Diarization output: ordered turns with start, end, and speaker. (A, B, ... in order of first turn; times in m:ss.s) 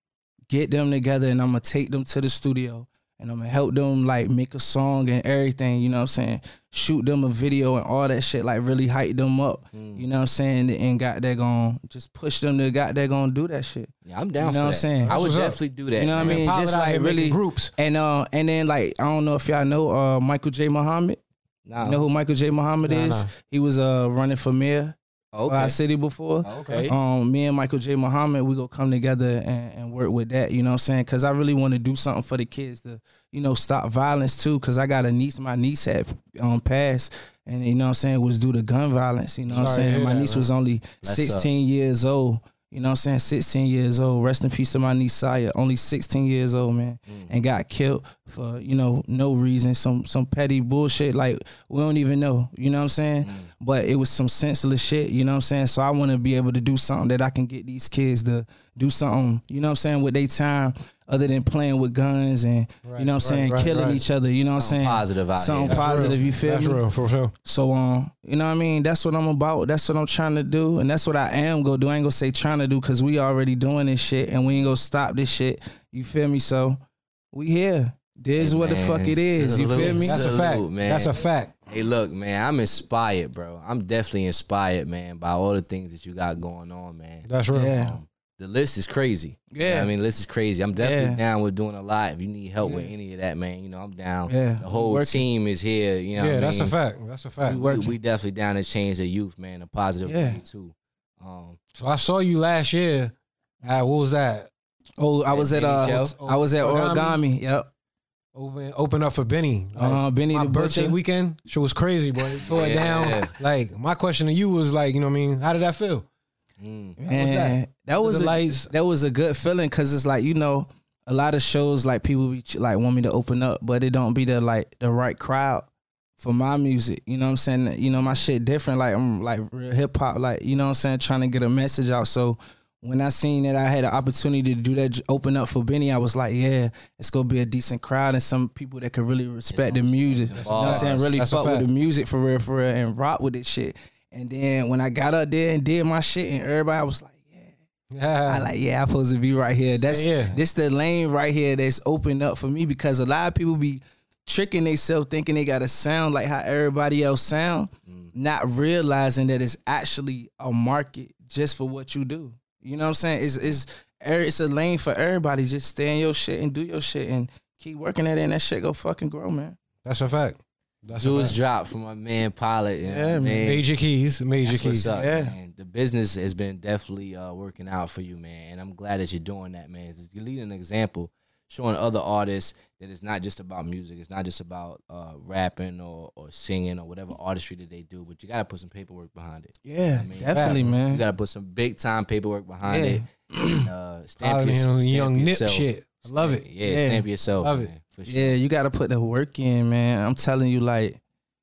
0:00.5-0:15.2 A
0:09.7-0:10.0 B
0:14.0-0:16.5 B
0:15.0-0:15.6 C
0:16.0-0:21.2 A
0:16.2-0:17.7 C
0:21.6-0:22.0 B
0:21.8-1:06.8 A
0:22.8-0:23.3 C
0:25.3-0:25.8 B
0:26.4-0:27.0 B
0:39.5-0:39.8 B
0:39.5-0:40.5 C
0:41.0-0:41.5 B
0:47.1-0:47.4 B
0:53.2-0:53.5 B
1:02.8-1:04.0 C
1:04.6-1:06.3 B
1:05.6-1:07.3 C
1:07.4-1:16.8 A
1:17.3-1:20.3 A
1:18.4-1:36.8 B
1:19.9-1:21.5 C
1:27.2-1:27.7 C
1:27.5-1:28.0 A
1:29.5-1:29.9 A
1:30.8-1:31.2 A
1:32.6-1:32.9 A
1:34.3-1:35.3 A
1:36.2-1:37.6 C
1:37.4-1:41.6 B
1:37.5-1:37.9 A
1:40.0-1:40.4 A
1:41.7-1:44.5 C
1:45.0-1:47.7 A
1:45.3-1:46.1 B
1:45.9-1:47.2 C
1:48.3-1:56.1 C
1:49.8-1:51.0 A
1:52.4-1:53.3 B
1:52.5-1:53.1 A
1:56.6-1:57.0 B
1:57.0-2:27.5 A
1:57.1-1:58.7 C
2:19.5-2:21.2 B
2:20.4-2:21.7 C
2:27.9-2:28.5 C
2:28.2-2:49.6 A
2:29.8-2:30.3 C
2:37.9-2:38.1 B
2:49.8-2:51.4 C
2:50.9-2:53.6 B
2:52.8-2:53.5 A
2:53.4-2:54.9 C
2:54.4-3:18.4 B
2:54.9-2:55.3 A
3:09.6-3:11.0 A
3:10.3-3:10.7 C
3:12.6-3:13.7 A
3:14.2-3:16.5 C
3:16.6-3:17.0 A
3:17.4-3:17.7 C
3:18.1-3:21.0 A